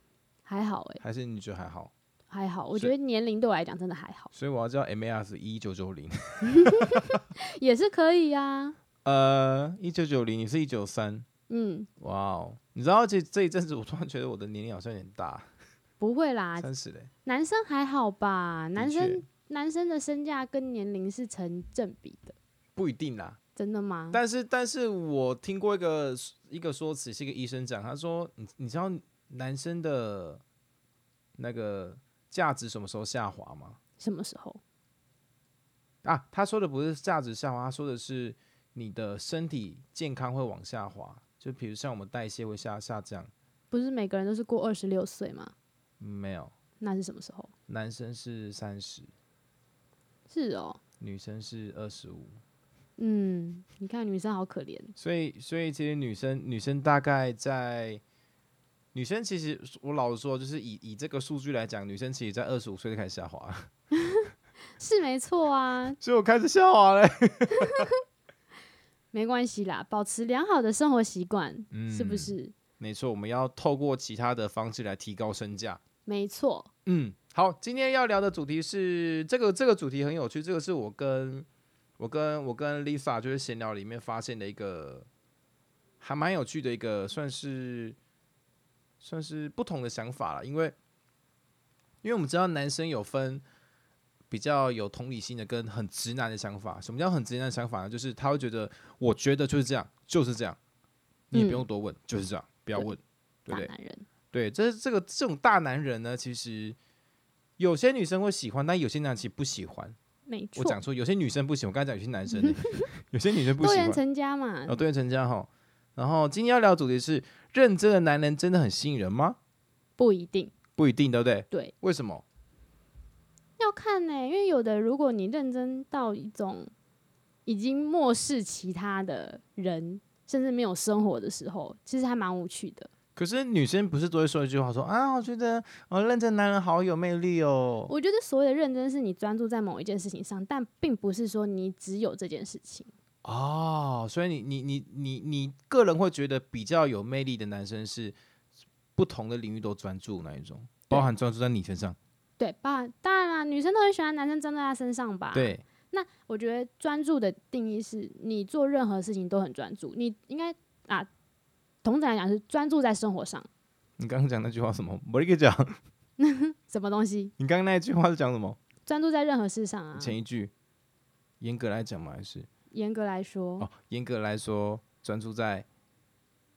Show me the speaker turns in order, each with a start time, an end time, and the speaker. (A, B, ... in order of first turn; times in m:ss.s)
0:00.4-0:01.0 A
0:01.0-0:01.9 B
0:02.3-0:04.3 A
0:04.3-0:07.2 B
0:06.4-0:08.8 A
0:09.0-0:11.2 B
0:11.5-0:11.9 A
0:12.0-0:15.5 B
0:16.0-0:16.7 A
0:16.6-0:17.1 B
0:17.2-0:22.4 A
0:18.8-0:19.2 B
0:22.8-0:23.4 B
0:23.6-0:24.2 A
0:24.1-0:30.4 B
0:31.4-0:33.8 B
0:34.0-0:34.6 A
0:36.0-0:43.3 B
0:43.7-0:45.5 A
0:46.0-0:46.5 B
0:46.8-0:47.5 A
0:47.7-0:49.1 B
0:50.3-0:50.8 A
0:51.0-0:52.4 B
0:53.0-0:54.9 A
0:55.0-0:58.0 B
0:58.9-1:03.7 B
1:04.0-1:04.3 A
1:04.8-1:06.0 A
1:06.0-1:07.9 B
1:07.5-1:07.9 A
1:09.1-1:12.5 A
1:11.7-1:15.8 B
1:16.0-1:16.7 A
1:16.8-1:21.5 B
1:22.0-1:25.1 B
1:26.0-1:28.0 B
1:29.0-1:30.7 B
1:32.0-1:33.4 B
1:34.3-1:40.6 B
1:41.3-1:43.7 B
1:41.3-1:41.7 A
1:43.5-1:44.0 A
1:44.3-1:46.8 B
1:47.6-1:50.0 B
1:50.3-1:50.8 A
1:50.6-1:54.0 B
1:52.3-1:52.8 A
1:53.5-1:54.8 A
1:54.7-1:59.4 B
2:00.0-2:00.5 A
2:00.8-2:02.2 B
2:03.6-2:06.7 A
2:07.4-2:12.9 A
2:13.2-2:17.9 B
2:17.9-2:22.9 A
2:23.2-2:28.2 B
2:29.0-2:32.0 B
2:32.4-2:41.1 A
2:35.3-2:35.6 B
2:41.8-2:43.5 A
2:44.0-2:45.8 B
2:46.2-2:47.3 A
2:47.4-2:48.6 B
2:48.8-2:50.2 A
2:50.0-2:50.5 B
2:51.4-2:52.5 B
2:52.7-2:53.7 A
2:53.6-2:55.6 B